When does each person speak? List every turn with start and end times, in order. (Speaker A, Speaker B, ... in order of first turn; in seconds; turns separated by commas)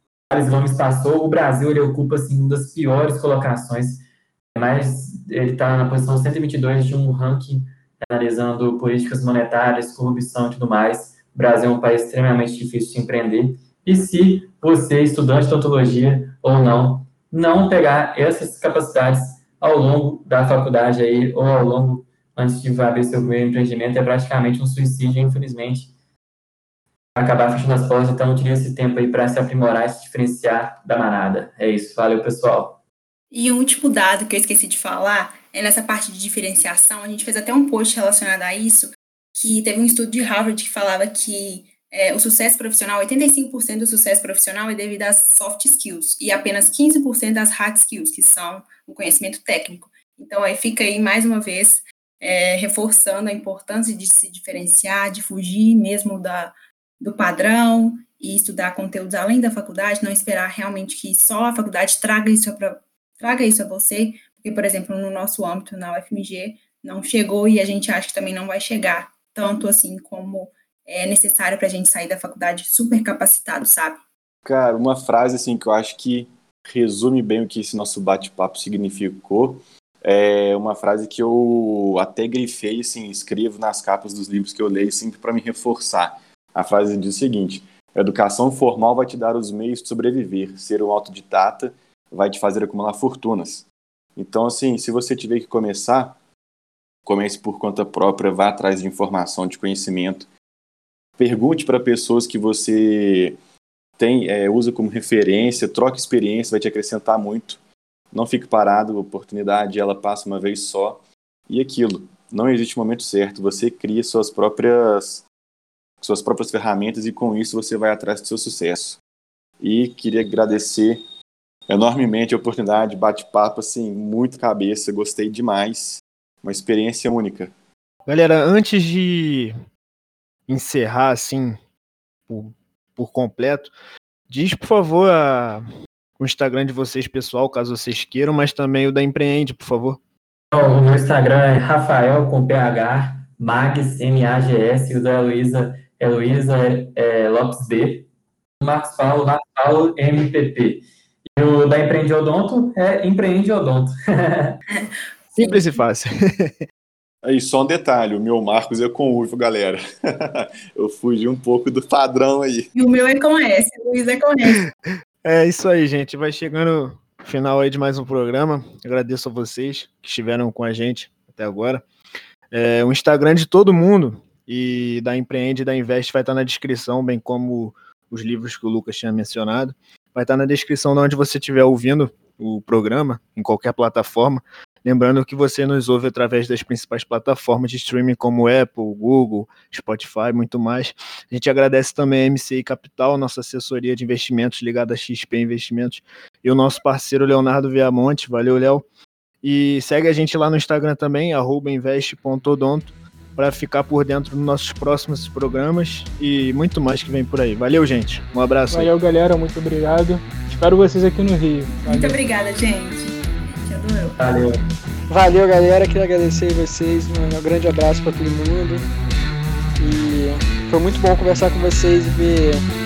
Speaker A: 0.3-4.0, Speaker A: 4.5-25.9, Speaker A: 27.1-32.8, Speaker B: 33.3-74.0, Speaker C: 74.4-96.2, Speaker C: 97.0-100.3, Speaker C: 101.2-103.4, Speaker C: 104.0-107.6, Speaker C: 108.1-115.2, Speaker C: 116.0-119.0, Speaker C: 119.6-121.0, Speaker C: 121.7-127.5, Speaker D: 128.1-129.6, Speaker D: 130.5-131.6, Speaker D: 132.3-133.7, Speaker D: 134.3-135.6, Speaker D: 136.2-140.0, Speaker A: 140.5-148.1, Speaker A: 148.6-150.8, Speaker A: 151.3-154.6, Speaker B: 154.7-155.7, Speaker D: 155.4-156.6, Speaker C: 157.2-162.7, Speaker B: 162.7-164.7, Speaker D: 165.2-171.8, Speaker D: 172.5-198.8, Speaker D: 199.4-208.9, Speaker E: 208.7-212.2, Speaker B: 211.8-214.2, Speaker A: 214.2-214.6, Speaker F: 215.1-218.8, Speaker F: 219.8-222.6